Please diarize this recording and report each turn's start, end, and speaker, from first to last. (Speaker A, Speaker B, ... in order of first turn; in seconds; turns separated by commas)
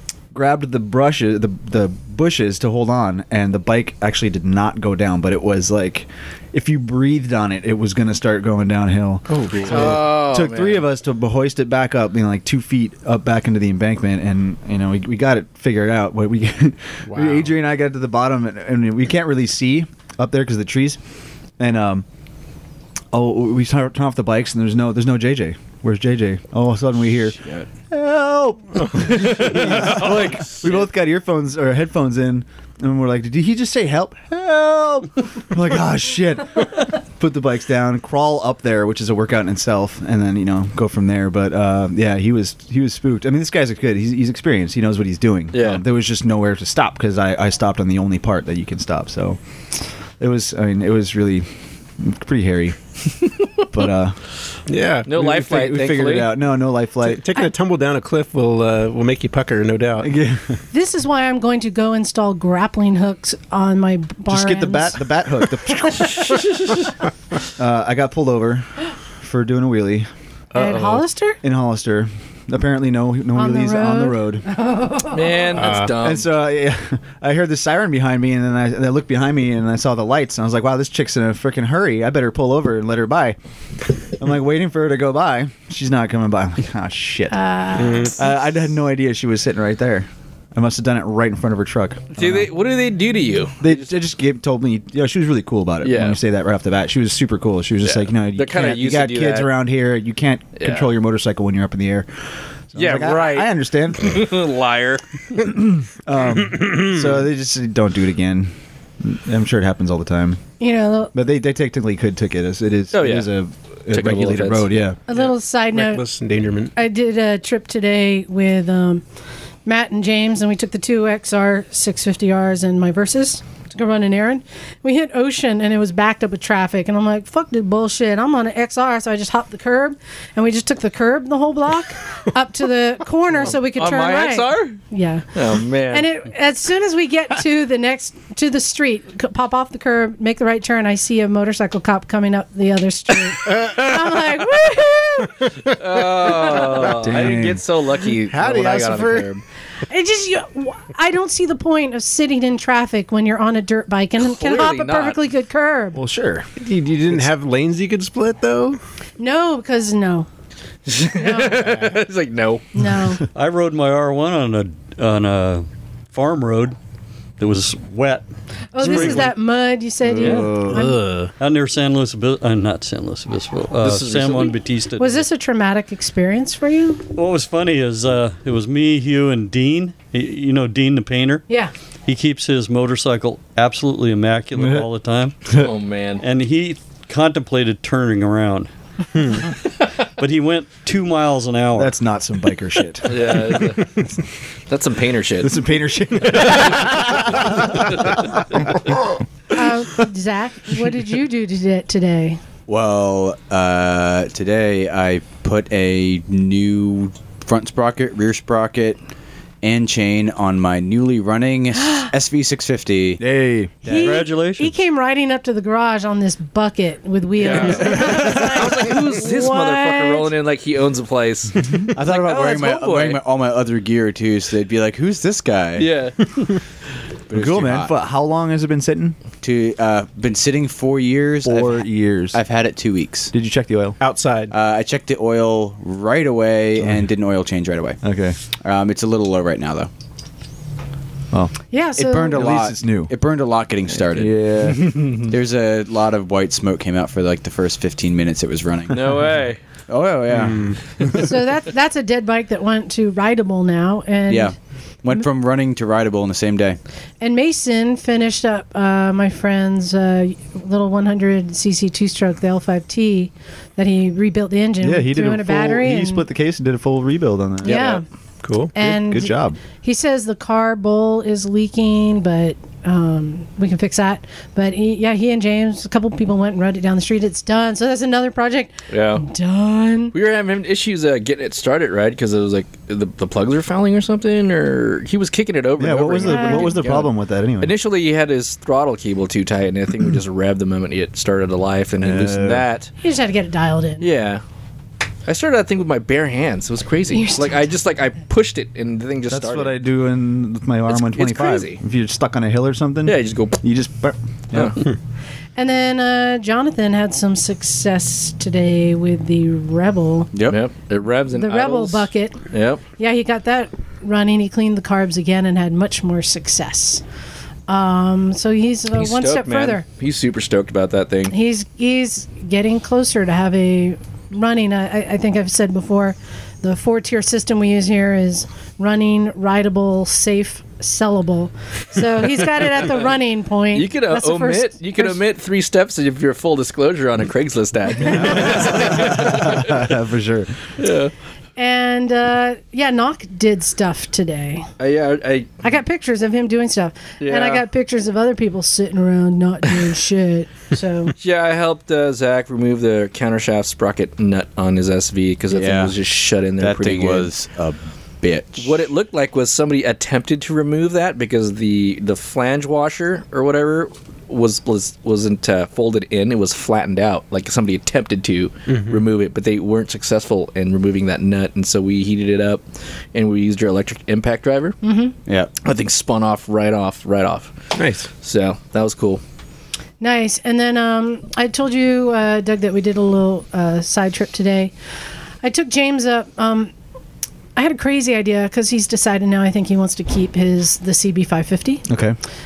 Speaker A: 0.3-21.0, Speaker B: 9.3-10.8, Speaker C: 17.1-17.4, Speaker A: 21.6-22.1, Speaker A: 23.1-27.4, Speaker A: 27.9-49.4, Speaker B: 29.1-30.9, Speaker B: 45.5-45.8, Speaker A: 50.2-52.8, Speaker A: 53.5-54.2, Speaker C: 54.7-55.1, Speaker B: 55.1-56.3, Speaker A: 55.1-57.2, Speaker C: 57.0-60.1, Speaker A: 60.0-60.6, Speaker D: 60.7-66.7, Speaker A: 64.3-66.4, Speaker A: 67.5-68.7, Speaker A: 69.2-70.1, Speaker D: 70.5-71.4, Speaker B: 70.6-71.0, Speaker A: 71.4-74.5, Speaker D: 73.3-75.6, Speaker B: 75.1-76.3, Speaker C: 75.6-76.0, Speaker A: 76.0-83.4, Speaker A: 84.1-92.5, Speaker D: 87.3-88.2, Speaker C: 87.8-88.1, Speaker B: 92.2-93.9, Speaker A: 93.6-102.1, Speaker B: 95.8-96.2, Speaker B: 97.8-99.5, Speaker B: 100.6-100.9, Speaker A: 102.7-104.4, Speaker B: 102.8-105.4, Speaker A: 105.4-110.4, Speaker D: 110.6-111.1, Speaker A: 111.1-115.0, Speaker B: 112.9-113.3, Speaker B: 113.9-114.7, Speaker D: 115.1-116.0, Speaker C: 115.2-116.7, Speaker D: 116.8-119.0, Speaker D: 119.7-145.5, Speaker B: 133.6-134.8, Speaker B: 135.3-136.1, Speaker B: 145.8-149.4, Speaker A: 146.8-147.6, Speaker A: 148.2-149.3, Speaker D: 149.9-156.0, Speaker B: 154.2-155.2, Speaker A: 155.9-156.5, Speaker C: 156.6-158.8, Speaker D: 159.2-160.3, Speaker B: 160.9-162.7, Speaker D: 161.1-161.9, Speaker D: 162.8-163.2, Speaker E: 163.3-166.8, Speaker E: 167.4-168.2, Speaker D: 168.7-171.0, Speaker E: 168.8-169.3, Speaker B: 170.2-170.5, Speaker A: 170.2-170.9, Speaker C: 170.7-171.3, Speaker E: 171.4-175.2, Speaker B: 173.8-174.6, Speaker D: 175.0-177.1, Speaker E: 177.2-181.4, Speaker E: 182.1-185.3, Speaker A: 184.6-184.8, Speaker B: 185.6-186.2, Speaker E: 186.2-191.9, Speaker A: 191.8-193.6, Speaker B: 193.1-194.0, Speaker B: 194.7-195.5, Speaker A: 195.4-199.9, Speaker D: 199.5-202.4, Speaker F: 202.7-209.0, Speaker F: 209.6-213.2, Speaker A: 213.2-213.8, Speaker F: 213.8-214.2, Speaker D: 213.8-220.3, Speaker E: 213.9-214.7, Speaker B: 217.4-223.2, Speaker F: 221.9-225.9, Speaker B: 225.8-226.2, Speaker F: 227.3-227.9, Speaker A: 227.3-229.2, Speaker F: 229.4-233.3, Speaker A: 231.4-232.4, Speaker A: 233.3-234.0, Speaker C: 234.0-234.5, Speaker F: 234.5-238.0, Speaker A: 236.8-237.1, Speaker A: 238.0-238.4, Speaker F: 238.6-239.9, Speaker D: 241.7-242.5, Speaker F: 242.0-251.3, Speaker A: 242.3-243.1, Speaker A: 243.9-245.3, Speaker B: 248.9-249.6, Speaker C: 250.3-251.3, Speaker D: 251.2-254.5, Speaker F: 254.3-256.8, Speaker D: 257.2-266.2, Speaker A: 264.8-267.8, Speaker D: 267.6-268.0, Speaker B: 267.6-268.0, Speaker C: 268.4-268.7, Speaker D: 268.7-280.1, Speaker A: 268.8-269.6, Speaker B: 278.9-279.2, Speaker B: 280.1-292.9, Speaker A: 285.8-287.8, Speaker D: 286.2-286.8, Speaker A: 292.0-292.7, Speaker D: 293.0-294.1, Speaker B: 294.0-294.4, Speaker B: 295.3-299.8, Speaker D: 297.1-297.7, Speaker A: 299.3-304.8, Speaker B: 300.9-301.8, Speaker B: 303.1-303.6, Speaker B: 304.5-304.8, Speaker D: 305.6-310.3, Speaker F: 310.3-310.6, Speaker B: 310.5-312.8, Speaker D: 311.3-312.4, Speaker D: 313.0-317.0, Speaker D: 317.7-319.9, Speaker B: 318.9-321.3, Speaker D: 321.3-335.2, Speaker B: 333.7-339.9, Speaker A: 338.1-340.6, Speaker B: 340.8-341.1, Speaker D: 341.6-344.7, Speaker B: 344.8-345.6, Speaker D: 345.6-351.1, Speaker B: 347.2-347.6, Speaker B: 351.2-357.3, Speaker F: 355.5-355.9, Speaker F: 356.6-358.8, Speaker B: 358.6-372.6, Speaker C: 368.7-369.0, Speaker B: 373.1-374.8, Speaker D: 374.8-375.1, Speaker B: 375.6-377.5, Speaker C: 377.8-378.1, Speaker B: 378.1-379.2, Speaker D: 380.0-384.7, Speaker D: 385.4-386.7, Speaker D: 387.6-391.8, Speaker A: 391.9-392.2